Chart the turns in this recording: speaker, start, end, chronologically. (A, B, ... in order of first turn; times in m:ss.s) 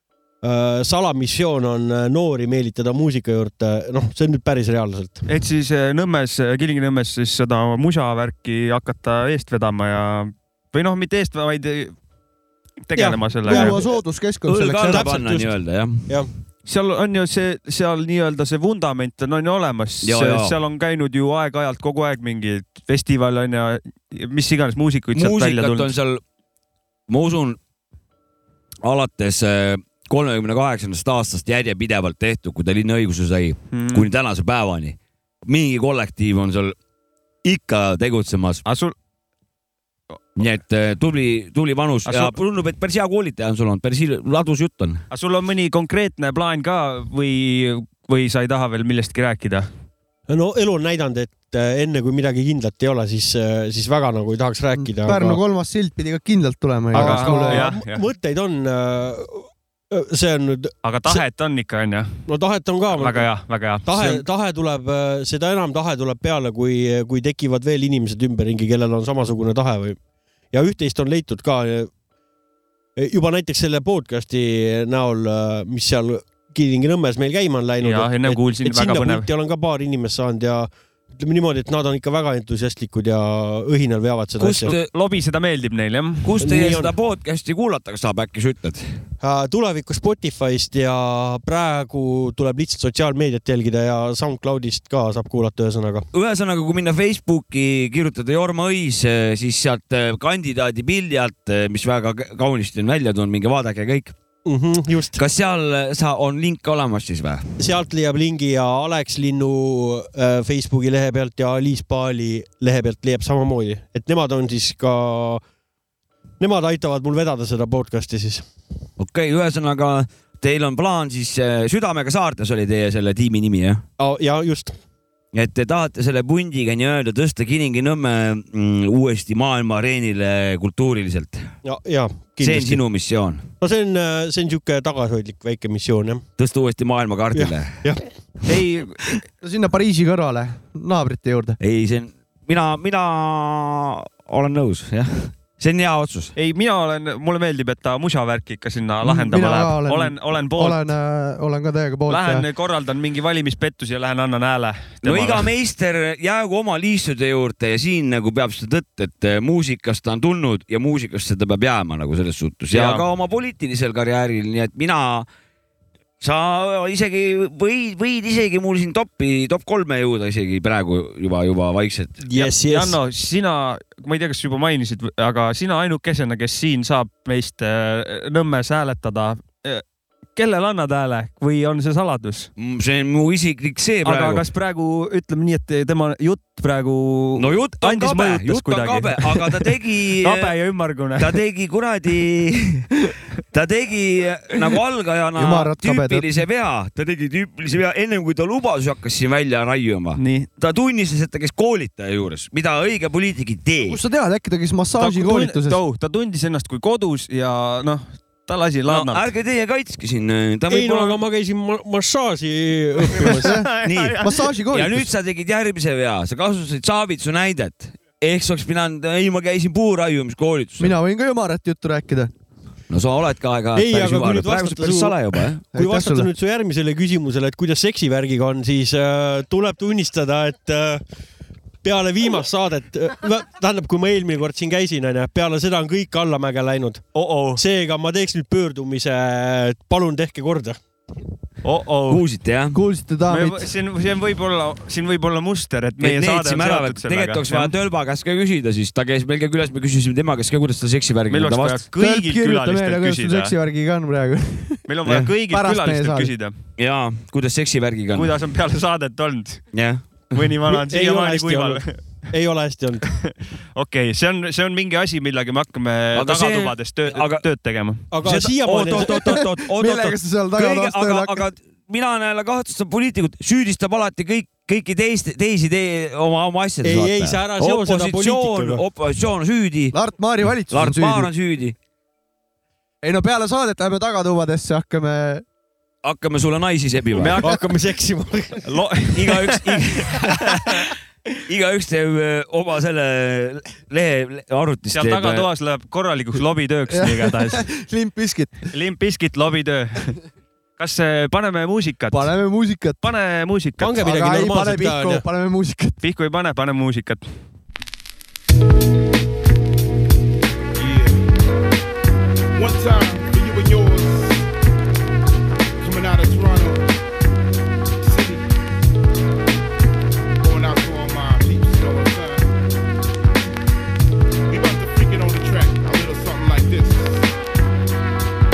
0:00.4-0:05.2 A
0:05.2-0:11.9 B
0:12.8-0:13.8 B
0:12.9-0:14.0 A
0:13.4-0:15.2 C
0:14.5-0:16.2 D
0:14.8-0:16.3 A
0:16.6-0:25.9 B
0:20.0-0:20.6 D
0:25.1-0:26.2 D
0:27.1-0:27.6 D
0:28.8-0:36.8 D
0:33.7-0:34.1 B
0:37.4-0:38.6 D
0:38.6-0:38.9 B
0:40.4-0:45.0 D
0:42.0-0:42.4 B
0:45.1-0:49.7 B
0:50.3-0:55.4 A
0:54.8-0:57.7 C
0:56.9-0:58.0 B
0:56.9-1:01.2 A
1:00.8-1:02.2 B
1:02.3-1:10.0 A
1:02.9-1:04.2 B
1:10.5-1:11.9 A
1:13.0-1:24.7 A
1:17.8-1:19.3 B
1:24.4-1:24.9 D
1:24.5-1:26.3 B
1:26.2-1:28.8 D
1:26.4-1:26.9 A
1:29.2-1:36.0 A
1:36.1-1:44.1 D
1:44.4-1:45.2 A
1:45.2-1:47.4 D
1:47.6-1:55.4 A
1:56.4-1:58.5 A
1:59.0-2:03.8 D
2:04.0-2:04.7 A
2:05.3-2:11.5 D
2:11.6-2:13.0 A
2:12.4-2:13.5 D
2:13.6-2:16.2 A
2:16.4-2:17.9 D
2:17.3-2:18.4 A
2:18.5-2:19.1 B
2:19.4-2:21.6 C
2:21.6-2:26.3 D
2:26.4-2:30.9 B
2:29.0-2:32.4 C
2:32.1-2:35.5 B
2:35.0-2:45.2 D
2:42.7-2:43.0 B
2:46.2-2:52.2 D
2:52.2-2:53.0 A
2:52.4-2:59.8 B
3:00.4-3:02.5 B
3:02.6-3:04.4 D
3:04.0-3:11.4 B
3:07.4-3:10.6 D
3:11.2-3:12.9 D
3:13.5-3:24.0 D
3:15.4-3:16.4 C
3:20.2-3:20.5 B
3:23.8-3:25.8 C
3:25.0-3:29.2 B
3:28.9-3:31.2 D
3:30.7-3:33.5 A
3:33.3-3:35.1 C
3:33.4-3:34.4 B
3:33.8-3:40.9 D
3:40.8-3:42.3 C
3:42.9-3:45.6 D
3:43.7-3:51.0 A
3:45.7-3:46.3 C
3:51.8-4:00.8 A
3:57.1-3:57.6 B
4:01.6-4:02.2 B
4:02.1-4:02.8 D
4:02.7-4:03.7 C
4:03.3-4:07.7 B
4:06.0-4:11.8 D
4:11.3-4:13.5 B
4:12.0-4:16.3 C
4:14.9-4:16.6 B
4:16.8-4:18.3 D
4:18.1-4:22.3 B
4:19.7-4:20.2 D
4:20.7-4:23.2 A
4:23.1-4:29.4 B
4:26.2-4:27.4 D
4:28.1-4:29.4 A
4:28.2-4:41.7 D
4:29.5-4:31.5 C
4:36.8-4:38.8 A
4:39.9-4:41.3 C
4:43.0-4:45.4 C
4:46.0-4:47.4 D
4:47.2-4:47.6 B
4:47.4-4:48.7 A
4:48.6-4:50.8 B
4:49.1-4:50.7 D
4:51.5-4:55.5 D
4:54.9-4:57.7 B
4:56.9-4:58.7 C
4:58.7-5:00.2 B
5:00.8-5:02.4 B
5:02.1-5:03.0 C
5:03.0-5:04.0 B
5:03.8-5:05.2 A
5:04.0-5:06.0 C
5:06.0-5:07.5 B
5:10.8-5:11.2 E
5:12.5-5:14.5 E
5:15.8-5:16.9 E
5:18.0-5:18.5 E
5:20.4-5:22.5 E
5:24.5-5:27.3 E